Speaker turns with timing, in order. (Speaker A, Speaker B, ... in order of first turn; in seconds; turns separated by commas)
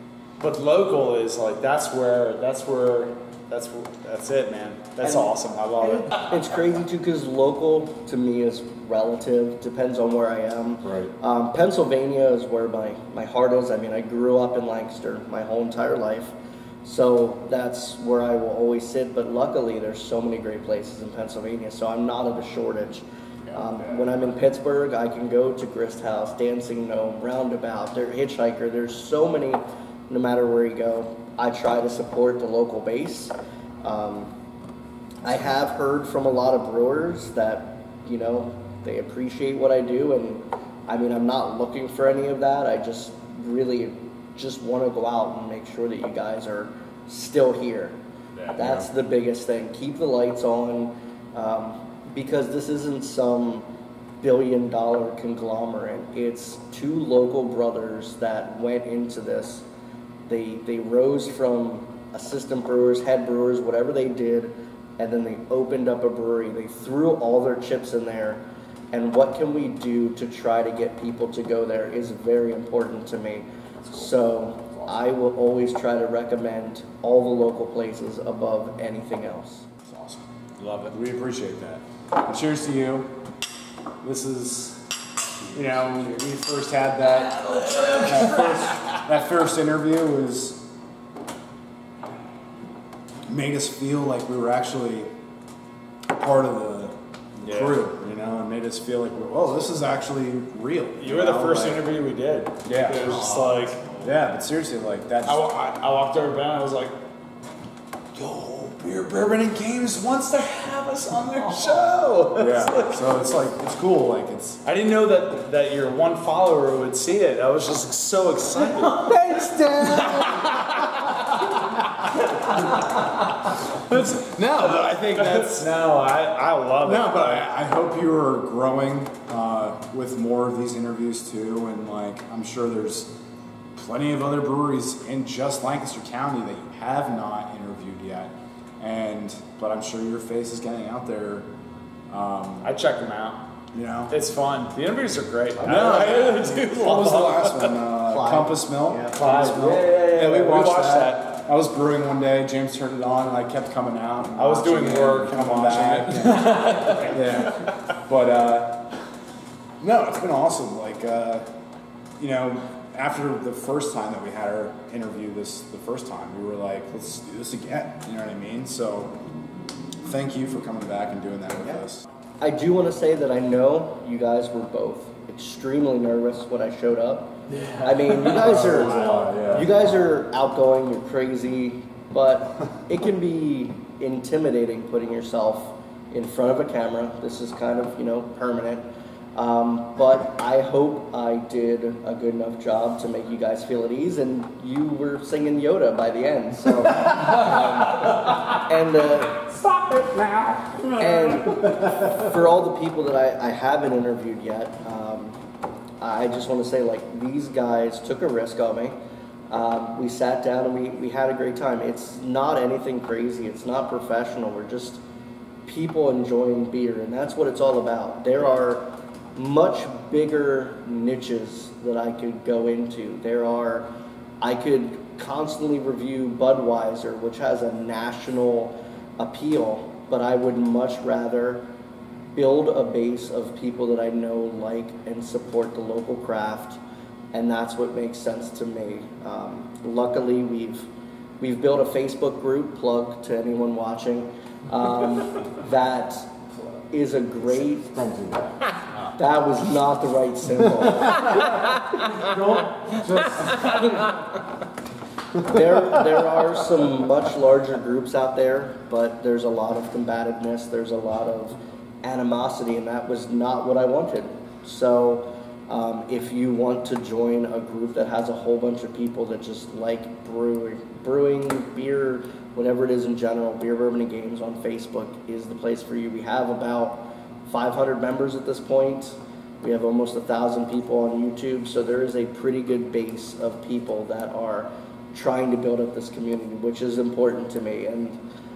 Speaker A: 0.4-6.3, Speaker B: 5.0-33.3, Speaker C: 23.5-23.9, Speaker B: 33.8-34.3, Speaker B: 35.2-48.0, Speaker A: 48.4-48.8, Speaker B: 48.5-53.7, Speaker B: 54.2-59.6, Speaker B: 60.3-79.7, Speaker C: 79.9-80.2, Speaker A: 80.6-81.0, Speaker C: 80.9-83.1, Speaker C: 84.0-84.9, Speaker C: 85.4-90.7, Speaker A: 85.7-86.1, Speaker A: 87.0-89.1, Speaker C: 93.3-95.1, Speaker C: 96.1-101.9, Speaker A: 97.4-97.8, Speaker A: 101.0-104.0, Speaker C: 102.7-103.3, Speaker C: 104.0-105.5, Speaker A: 105.3-106.9, Speaker A: 108.2-113.1, Speaker C: 112.3-114.6, Speaker A: 114.7-121.8, Speaker B: 119.2-120.3, Speaker C: 119.3-120.6, Speaker A: 122.5-122.8, Speaker C: 123.9-125.7, Speaker A: 125.1-127.4, Speaker C: 126.8-133.1, Speaker C: 133.8-141.5, Speaker C: 142.1-142.7, Speaker A: 142.6-143.4, Speaker C: 143.7-144.2, Speaker A: 144.1-147.8, Speaker C: 145.6-158.9, Speaker B: 148.1-149.4, Speaker A: 149.1-151.3, Speaker A: 154.4-157.3, Speaker C: 159.8-161.5, Speaker C: 162.2-169.2, Speaker C: 170.0-172.0, Speaker B: 172.4-188.8, Speaker A: 177.5-179.3, Speaker C: 178.2-179.7, Speaker B: 189.4-199.4, Speaker A: 197.2-198.6, Speaker A: 199.4-200.9, Speaker C: 200.8-202.3, Speaker B: 201.0-205.4, Speaker B: 206.0-209.0, Speaker B: 209.5-215.0, Speaker B: 215.7-223.9, Speaker B: 224.4-231.7, Speaker B: 232.3-236.8, Speaker B: 237.3-240.9, Speaker B: 241.4-248.3, Speaker B: 249.2-251.9, Speaker C: 252.2-254.1, Speaker B: 255.4-288.2